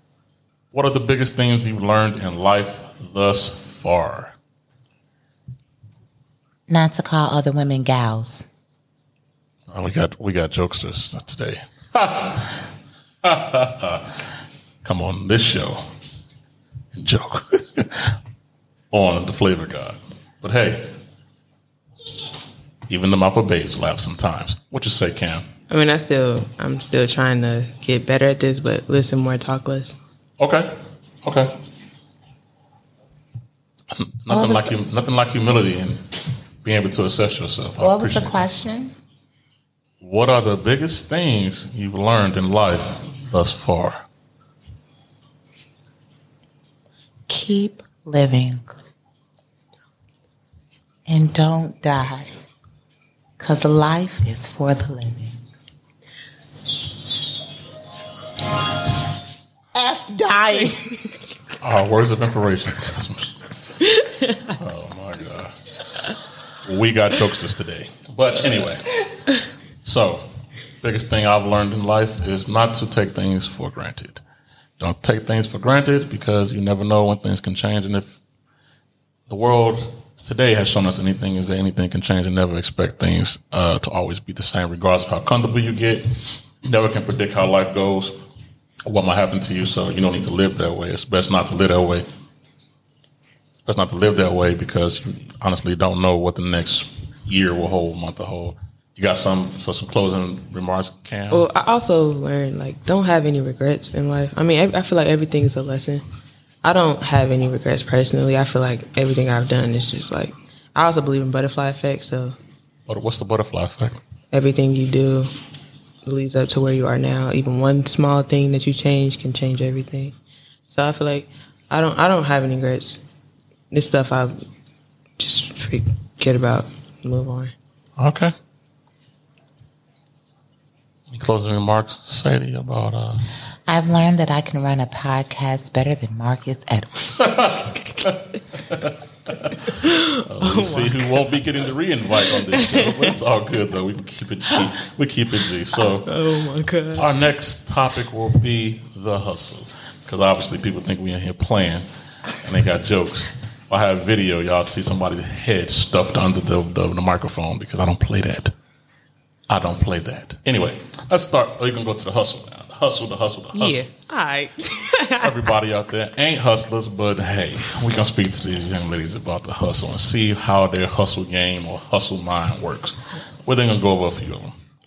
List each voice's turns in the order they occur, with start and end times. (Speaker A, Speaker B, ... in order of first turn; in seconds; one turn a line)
Speaker A: 0.7-4.3
Speaker B: 6.7-8.4
Speaker A: 9.7-12.6
Speaker A: 13.2-14.3
Speaker A: 14.8-15.8
Speaker A: 16.9-18.2
Speaker A: 18.9-20.9
Speaker A: 22.9-25.5
Speaker C: 25.7-29.9
Speaker A: 30.4-31.6
Speaker A: 33.9-38.4
Speaker B: 34.3-34.7
Speaker B: 37.8-38.9
Speaker A: 40.0-44.0
Speaker B: 47.3-48.7
Speaker B: 51.1-52.3
Speaker B: 53.4-55.4
Speaker B: 59.7-60.9
Speaker A: 61.6-63.4
Speaker C: 64.0-64.4
Speaker A: 64.5-65.5
Speaker A: 66.6-69.0
Speaker A: 69.8-70.3
Speaker A: 70.8-74.2
Speaker A: 74.8-78.2
Speaker A: 79.3-88.2
Speaker A: 88.8-92.1
Speaker A: 93.6-101.5
Speaker C: 101.3-106.0
Speaker C: 106.6-112.4
Speaker A: 112.9-114.0
Speaker C: 114.3-115.3
Speaker C: 116.0-120.1
Speaker C: 120.7-123.0
Speaker C: 123.7-124.4
Speaker C: 125.2-127.5
Speaker A: 128.0-128.3
Speaker A: 131.1-133.3
Speaker B: 133.7-137.4
Speaker A: 137.2-146.2
Speaker C: 139.7-141.3
Speaker C: 142.2-143.2
Speaker C: 145.7-147.1
Speaker A: 146.9-158.5
Speaker A: 159.5-163.8
Speaker C: 163.5-165.5
Speaker A: 165.2-174.5